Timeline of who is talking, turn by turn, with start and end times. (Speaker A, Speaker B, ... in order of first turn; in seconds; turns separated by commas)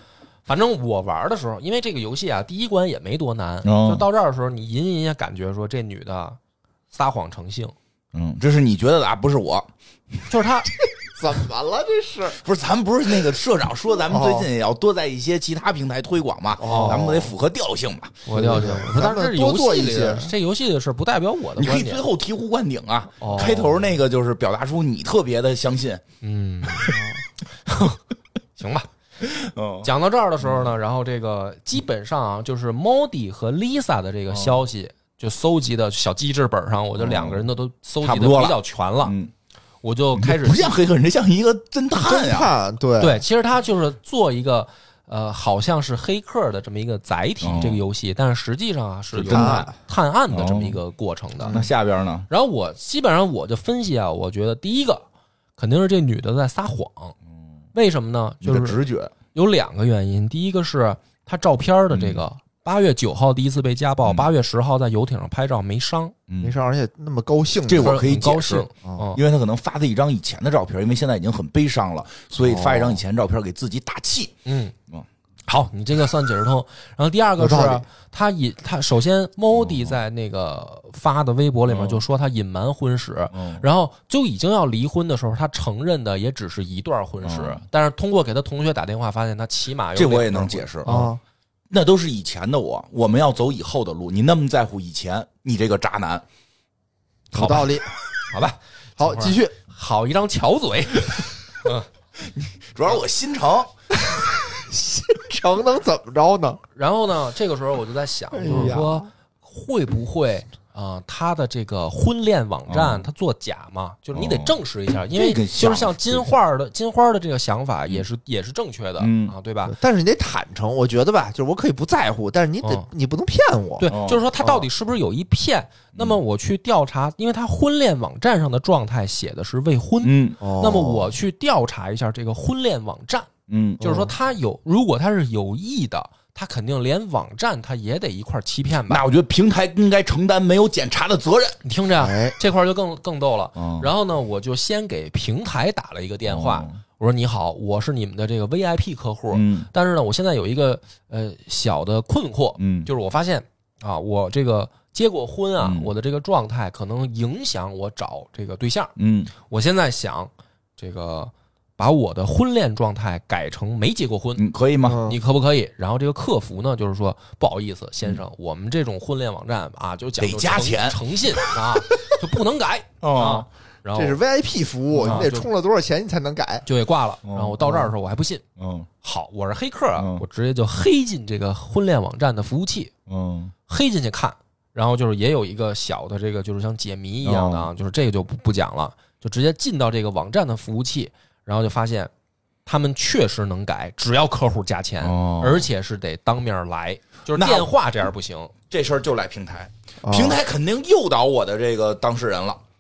Speaker A: 0.5-6.4, Speaker B: 3.6-4.0, Speaker A: 6.9-7.8, Speaker B: 8.1-9.7, Speaker A: 10.3-10.7, Speaker C: 11.0-12.4, Speaker B: 12.4-18.2, Speaker C: 14.1-14.5, Speaker C: 16.6-17.3, Speaker A: 16.6-17.2, Speaker A: 18.3-22.0, Speaker C: 18.3-20.4, Speaker B: 21.6-26.0, Speaker A: 23.2-23.8, Speaker C: 23.3-23.6, Speaker A: 26.2-26.9, Speaker B: 26.7-27.0, Speaker C: 26.9-27.2, Speaker A: 27.6-28.0, Speaker A: 28.6-28.9, Speaker B: 29.2-29.9, Speaker A: 29.8-39.1, Speaker B: 34.3-34.6, Speaker B: 37.0-37.5, Speaker B: 38.0-39.3, Speaker A: 39.8-40.8, Speaker B: 40.2-42.5, Speaker C: 41.9-43.2, Speaker A: 43.0-51.7, Speaker B: 47.4-47.8, Speaker B: 49.1-49.7, Speaker C: 49.3-49.7, Speaker B: 50.3-50.8, Speaker C: 51.4-51.7, Speaker B: 51.5-52.3, Speaker A: 52.3-55.0, Speaker A: 55.6-57.2, Speaker A: 57.7-58.8, Speaker B: 58.4-59.1, Speaker A: 59.3-66.2, Speaker B: 61.9-62.2, Speaker B: 66.3-66.6, Speaker C: 66.4-68.0, Speaker B: 67.7-74.3, Speaker A: 67.8-69.2, Speaker C: 72.4-73.0, Speaker A: 74.5-74.8, Speaker A: 75.5-91.1, Speaker C: 77.4-77.8, Speaker B: 79.5-80.0, Speaker B: 81.7-82.0, Speaker B: 83.3-83.7, Speaker B: 87.2-87.7, Speaker B: 90.0-91.0, Speaker C: 90.8-91.2, Speaker B: 91.7-96.2, Speaker C: 97.3-97.9, Speaker A: 97.3-101.9, Speaker C: 99.0-99.5, Speaker B: 102.2-103.7, Speaker C: 104.0-106.6, Speaker A: 106.8-119.8, Speaker C: 108.3-109.1, Speaker B: 108.4-108.8, Speaker B: 112.7-113.1, Speaker B: 114.1-114.6, Speaker B: 115.1-116.3, Speaker B: 119.0-119.3, Speaker C: 119.7-124.7, Speaker A: 122.6-122.9, Speaker A: 123.8-139.1, Speaker B: 123.9-124.2, Speaker B: 130.0-130.4, Speaker C: 130.4-131.1, Speaker B: 133.5-133.9, Speaker C: 133.8-134.1, Speaker B: 138.9-141.6, Speaker A: 141.6-164.4, Speaker C: 142.0-142.4, Speaker B: 143.6-143.9, Speaker B: 146.2-146.8, Speaker B: 149.3-149.7, Speaker B: 152.6-152.9, Speaker B: 155.6-155.9, Speaker B: 159.0-159.3, Speaker B: 164.4-165.1, Speaker C: 164.8-165.2, Speaker A: 165.0-174.2, Speaker B: 170.2-172.1, Speaker B: 173.0-173.5, Speaker C: 173.9-176.7, Speaker A: 174.9-175.5, Speaker A: 176.7-178.4, Speaker B: 177.2-177.7, Speaker B: 178.6-178.9, Speaker A: 179.0-182.9, Speaker B: 180.0-180.2, Speaker B: 183.1-183.5, Speaker A: 183.7-192.1, Speaker B: 187.2-187.7, Speaker A: 192.7-198.5, Speaker B: 195.0-195.7, Speaker B: 197.3-197.7, Speaker B: 198.7-202.6, Speaker C: 200.0-200.4